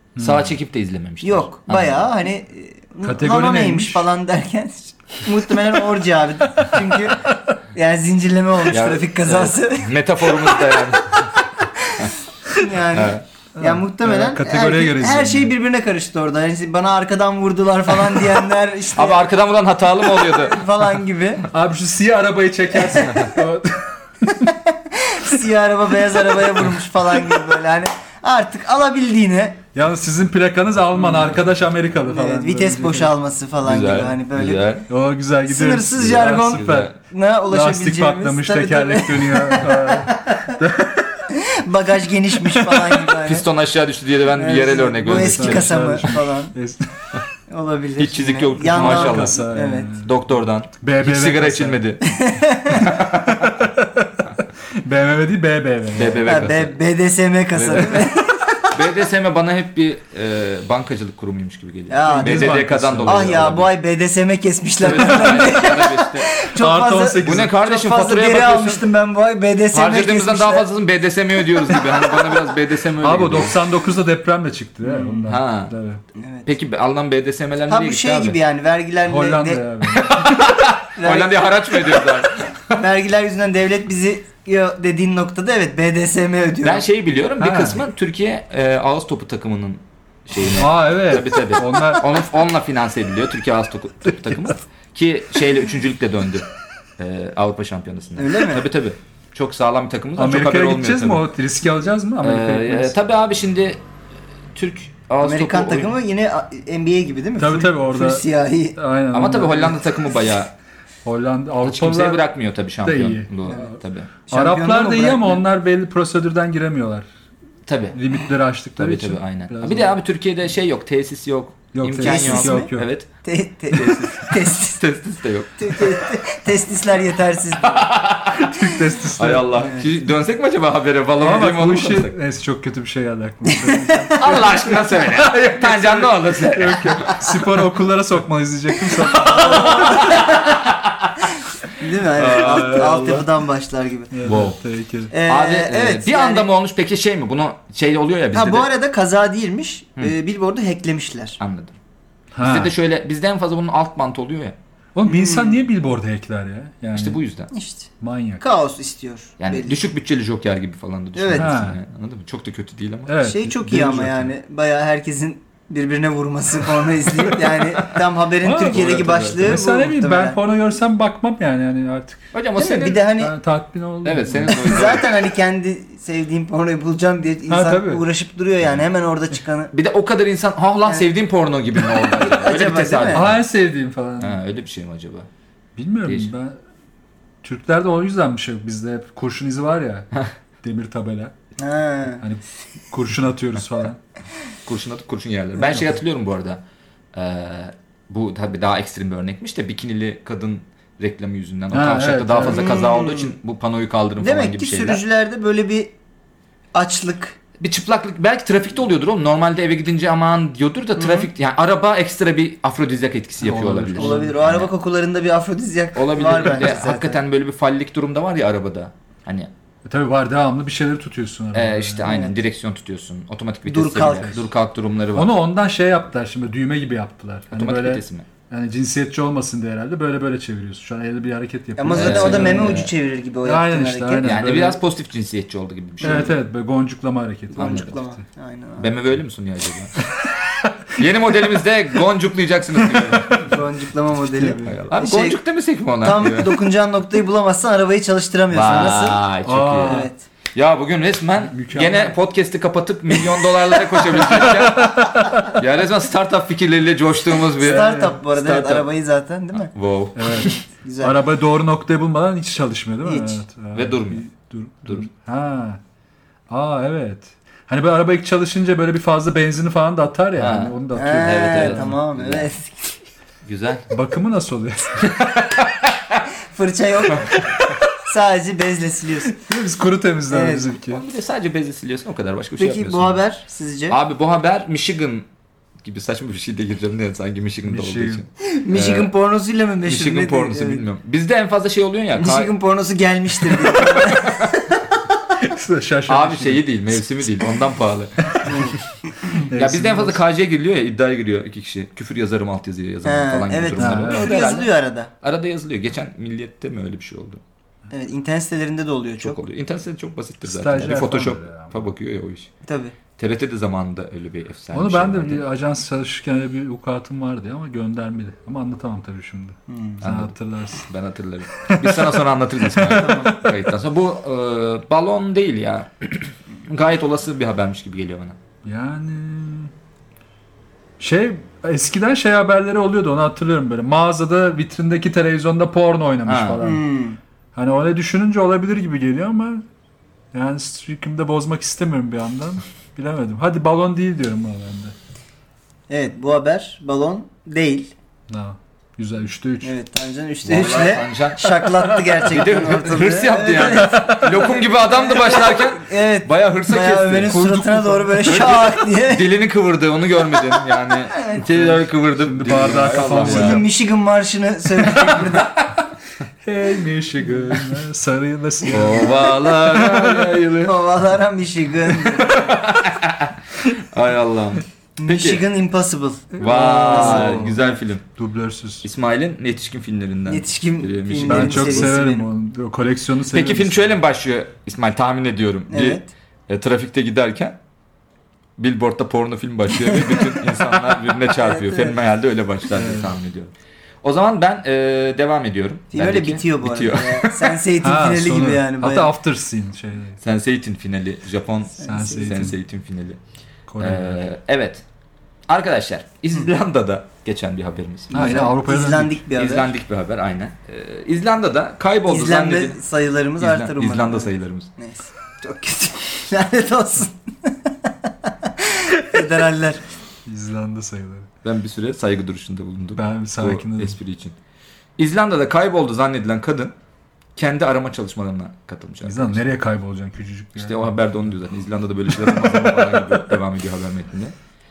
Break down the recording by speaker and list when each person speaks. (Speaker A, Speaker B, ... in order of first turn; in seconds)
Speaker A: 0.2-0.5, 3.0-4.1, 13.6-15.5, 21.5-24.5, 29.8-33.1, 34.9-36.9, 37.5-41.3, 42.5-43.0, 45.0-47.1, 48.6-50.1, 50.8-51.8, 53.2-54.3, 54.8-56.3, 62.1-63.4, 66.5-67.5, 73.0-76.0, 79.1-80.2, 87.4-87.8, 90.5-92.1, 100.2-103.0, 107.4-109.8, 111.0-112.2, 112.8-113.8, 114.3-117.1, 117.9-119.9, 121.7-122.9, 128.3-129.6, 131.2-140.2, 142.2-143.3, 144.1-145.1, 152.3-152.7, 154.9-157.2, 158.0-158.4, 161.3-161.8, 163.1-164.3, 168.4-172.3, 173.2-174.8, 177.5-178.0, 183.1-184.4, 185.8-186.6, 187.4-190.1, 190.6-191.3, 192.2-194.0, 201.7-202.7, 213.4-214.3, 219.8-222.1, 225.2-232.9, 233.4-234.8, 236.0-238.2, 240.2-241.1, 242.8-243.4, 244.2-244.8, 249.4-250.1, 251.5-252.2, 254.0-255.5, 257.7-258.2, 260.1-265.8, 266.5-272.0, 273.9-275.2, 279.3-281.1, 287.6-288.2, 295.4-296.6, 299.3-300.2, 303.8-304.3, 310.4-311.8, 314.7-320.9, 321.6-322.2, 322.7-323.4, 328.6-329.7, 331.0-336.8, 337.6-339.6, 340.3-344.9, 348.3-349.7, 353.8-354.3, 357.2-358.6, 362.2-363.6, 366.4-370.5, 376.4-377.6, 378.2-378.9, 381.2-383.9, 392.8-393.1, 397.8-400.2, 401.8-402.6, 403.7-404.3, 408.1-409.2, 420.3-421.3, 422.9-424.0, 429.1-431.1, 432.1-433.2
Speaker B: 0.2-2.1, 8.7-11.4, 12.9-13.2, 18.9-20.6, 33.6-34.9, 36.1-36.9, 43.2-45.9, 48.0-49.4, 49.9-52.0, 52.7-53.5, 55.9-56.8, 57.5-58.1, 58.7-63.7, 64.8-66.3, 67.2-68.8, 69.7-73.6, 75.3-75.7, 76.5-78.4, 79.9-82.8, 86.6-96.5, 97.0-101.3, 102.2-103.8, 104.5-106.0, 109.1-110.5, 111.6-114.1, 117.7-118.0, 118.8-123.1, 123.7-126.0, 127.6-132.2, 134.2-137.2, 139.2-141.2, 142.2-143.2, 144.2-144.6, 145.2-148.7, 151.4-151.8, 152.4-154.6, 156.9-157.5, 159.4-163.2, 168.6-169.6, 172.3-173.1, 174.0-175.1, 179.7-183.4, 184.2-185.3, 186.1-186.3, 194.7-205.0, 207.6-214.7, 215.9-219.5, 221.5-225.3, 227.5-228.3, 231.9-232.9, 234.2-236.3, 237.6-237.9, 238.8-240.0, 241.0-243.5, 244.6-246.6, 248.5-258.9, 259.5-260.6, 263.7-264.2, 270.4-272.5, 273.4-273.9, 275.1-276.2, 280.9-283.2, 283.9-285.3, 285.8-289.1, 289.9-292.5, 294.0-294.3, 296.1-298.7, 299.5-307.4, 309.2-312.5, 313.2-315.4, 320.0-328.4, 336.3-336.6, 350.4-357.4, 358.2-363.6, 368.7-370.8, 371.9-375.4, 376.4-378.1, 378.8-381.9, 383.3-387.6, 388.6-393.5, 394.0-397.6, 400.2-403.2, 403.8-404.8, 405.5-408.5, 409.4-412.8, 413.4-414.7, 421.4-424.4, 425.0-426.8, 427.4-429.4, 430.6-434.3
Speaker C: 1.2-19.3, 20.1-21.5, 22.9-23.3, 24.4-29.6, 31.0-31.3, 32.1-34.7, 35.5-40.6, 41.3-43.5, 44.3-46.5, 47.5-49.9, 52.0-52.9, 56.2-58.7, 61.9-70.7, 71.5-72.1, 74.8-75.3, 76.2-76.5, 77.7-79.7, 81.0-82.0, 82.7-86.9, 98.2-98.7, 105.2-108.8, 114.3-115.4, 122.0-124.8, 125.6-128.0, 129.6-129.9, 133.4-134.6, 139.1-140.6, 141.8-144.2, 145.1-146.5, 148.3-151.4, 155.1-155.7, 157.5-159.8, 161.2-161.5, 163.2-170.4, 172.6-173.3, 174.5-179.7, 182.1-183.3, 191.6-192.2, 202.4-203.3, 204.2-205.9, 206.7-207.4, 211.0-211.3, 214.0-217.2, 222.0-222.3, 223.7-224.4, 231.8-234.4, 236.0-236.3, 237.6-239.0, 243.3-245.4, 246.0-249.2, 249.8-250.2, 257.6-259.7, 260.4-261.2, 263.0-263.4, 270.9-273.0, 276.5-277.4, 278.0-279.4, 280.3-280.7, 282.6-284.0, 288.4-290.8, 292.2-294.9, 298.4-299.5, 303.1-305.1, 307.9-309.4, 312.6-312.9, 319.7-320.0, 322.9-323.4, 336.6-337.2, 345.9-347.9, 349.6-359.2, 361.2-361.4, 363.1-365.7, 370.6-372.7, 375.0-377.6, 380.3-382.3, 385.7-386.1, 391.4-391.9, 395.9-399.1, 401.8-402.5, 408.1-409.7, 412.1-419.8